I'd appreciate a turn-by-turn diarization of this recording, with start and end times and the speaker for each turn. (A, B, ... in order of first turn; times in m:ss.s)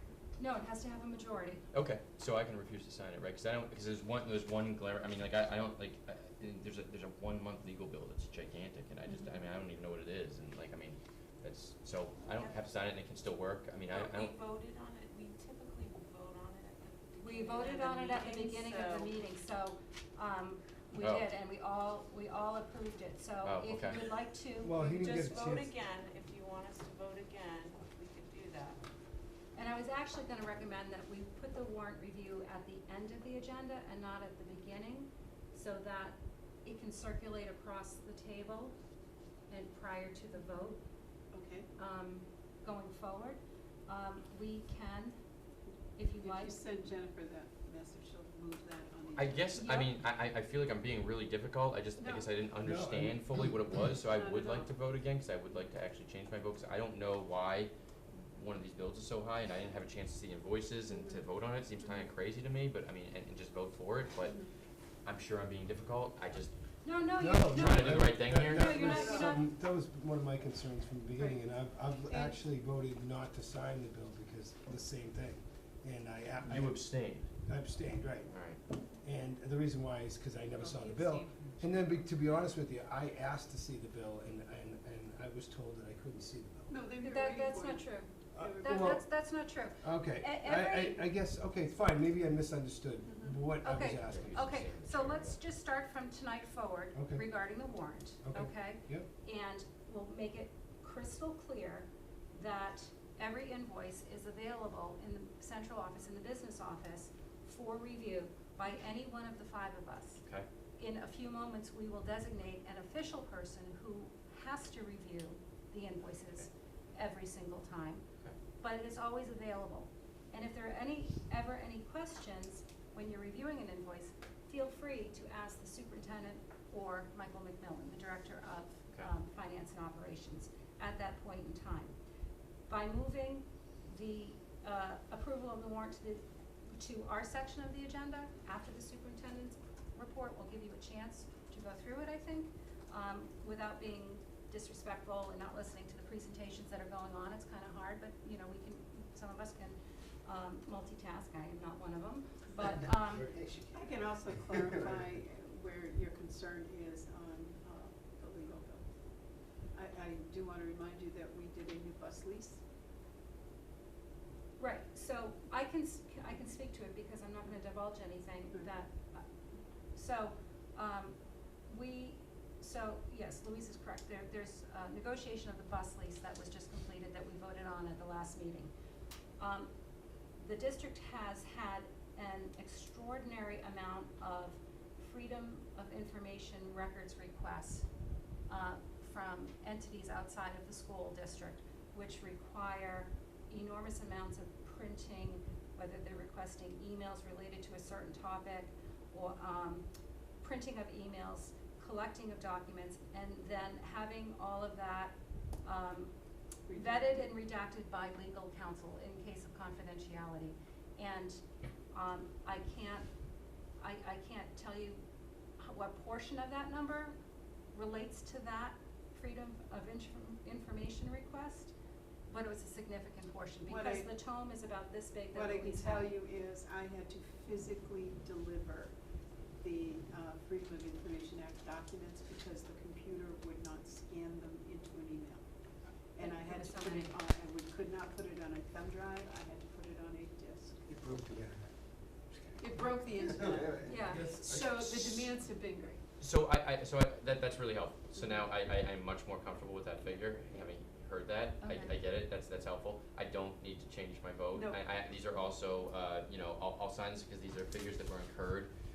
0:00.4-0:01.6 A
0:01.7-0:14.3 B
0:12.3-0:12.6 C
0:13.9-0:19.1 C
0:17.2-0:25.0 A
0:21.0-0:21.3 B
0:23.4-0:24.0 B
0:24.6-0:25.7 D
0:24.7-0:28.8 C
0:29.6-0:38.7 A
0:39.5-0:40.8 A
0:41.3-0:41.7 E
0:41.8-0:45.2 A
0:46.0-0:46.6 A
0:46.2-0:49.6 E
0:49.2-0:57.7 B
0:49.6-0:49.9 A
0:52.0-0:52.3 E
0:52.6-0:53.6 D
0:54.1-0:54.7 E
0:58.3-1:04.4 B
1:00.9-1:01.2 E
1:05.0-1:06.5 B
1:06.8-1:09.4 A
1:07.2-1:26.7 D
1:07.4-1:08.8 B
1:08.8-1:09.3 E
1:11.2-1:11.4 E
1:12.0-1:12.4 E
1:16.4-1:17.3 B
1:18.3-1:18.6 B
1:20.6-1:21.5 E
1:26.7-1:28.9 E
1:27.0-1:31.0 A
1:28.3-1:29.2 D
1:29.8-1:34.7 D
1:33.0-1:33.4 E
1:33.6-1:50.2 A
1:34.0-1:35.4 B
1:37.0-1:37.2 D
1:38.2-1:39.1 D
1:50.8-1:58.0 A
1:58.6-2:12.0 A
2:12.7-2:33.4 A
2:33.2-2:33.8 D
2:33.7-2:39.0 E
2:39.7-2:42.6 E
2:44.6-2:49.3 A
2:49.9-2:58.7 A
2:59.4-2:59.7 A
3:00.4-3:07.9 A
3:08.5-3:19.9 A
3:20.4-3:26.1 A
3:26.7-3:27.3 E
3:26.7-3:33.1 A
3:33.8-3:35.0 A
3:35.6-3:37.2 A
3:37.7-3:41.7 A
3:42.3-3:46.1 A
3:43.7-3:44.1 E
3:45.3-3:48.9 E
3:49.6-3:55.4 E
3:56.1-4:01.0 E
3:56.2-3:57.2 A
4:01.0-4:01.6 D
4:02.6-4:06.0 E
4:03.6-4:04.4 D
4:03.9-4:04.5 A
4:04.4-4:05.3 B
4:06.2-4:18.7 B
4:11.6-4:12.0 A
4:14.5-4:14.8 E